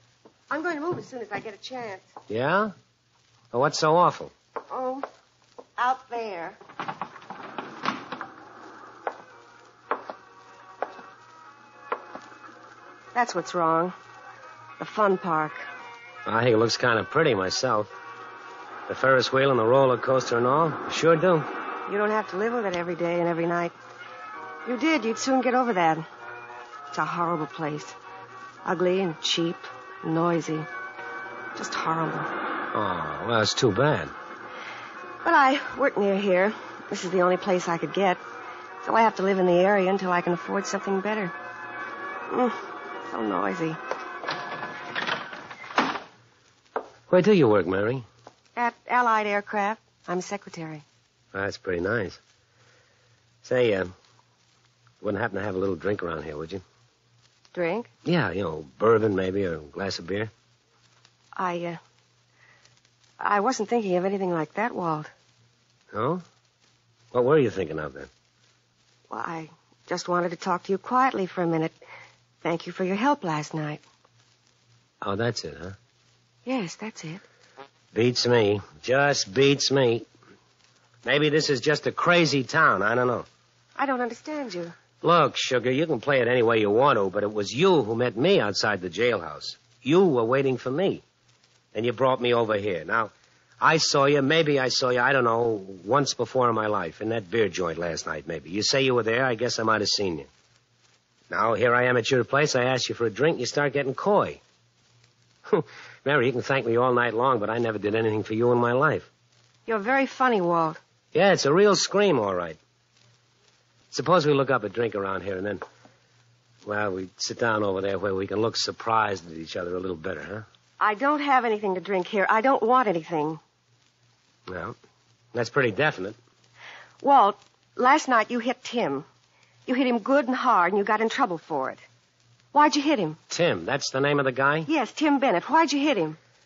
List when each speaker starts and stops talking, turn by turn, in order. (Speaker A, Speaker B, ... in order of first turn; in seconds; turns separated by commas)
Speaker A: 0.5-2.1, Speaker B: 2.3-2.7, Speaker B: 3.5-4.3, Speaker A: 4.7-5.0, Speaker A: 5.8-6.6, Speaker A: 13.1-13.9, Speaker A: 14.8-15.6, Speaker B: 16.2-17.9, Speaker B: 18.9-21.5, Speaker A: 21.9-23.7, Speaker A: 24.6-26.1, Speaker A: 26.9-27.9, Speaker A: 28.6-30.7, Speaker A: 31.6-32.3, Speaker B: 32.7-34.1, Speaker A: 35.2-38.2, Speaker A: 38.8-41.3, Speaker A: 42.3-43.8, Speaker B: 47.1-48.0, Speaker A: 48.5-50.8, Speaker B: 51.3-52.2, Speaker B: 53.4-53.9, Speaker B: 55.0-56.6, Speaker A: 57.5-57.9, Speaker B: 58.0-60.3, Speaker A: 61.4-61.8, Speaker A: 63.2-65.1, Speaker B: 65.9-66.2, Speaker B: 67.1-68.1, Speaker A: 69.1-71.8, Speaker A: 72.4-73.8, Speaker B: 75.0-75.8, Speaker A: 76.5-77.2, Speaker B: 77.9-80.0, Speaker B: 81.0-83.2, Speaker A: 83.8-84.7, Speaker B: 85.0-91.0, Speaker B: 91.7-100.3, Speaker B: 101.3-104.4, Speaker B: 105.5-109.1, Speaker A: 109.7-110.8, Speaker B: 111.1-112.6, Speaker B: 113.9-115.6, Speaker B: 116.7-120.4, Speaker A: 120.8-123.4, Speaker B: 124.5-124.8, Speaker B: 125.3-126.2, Speaker A: 127.0-129.0, Speaker A: 129.7-131.8, Speaker A: 132.5-133.2, Speaker B: 133.3-134.7, Speaker A: 134.7-136.2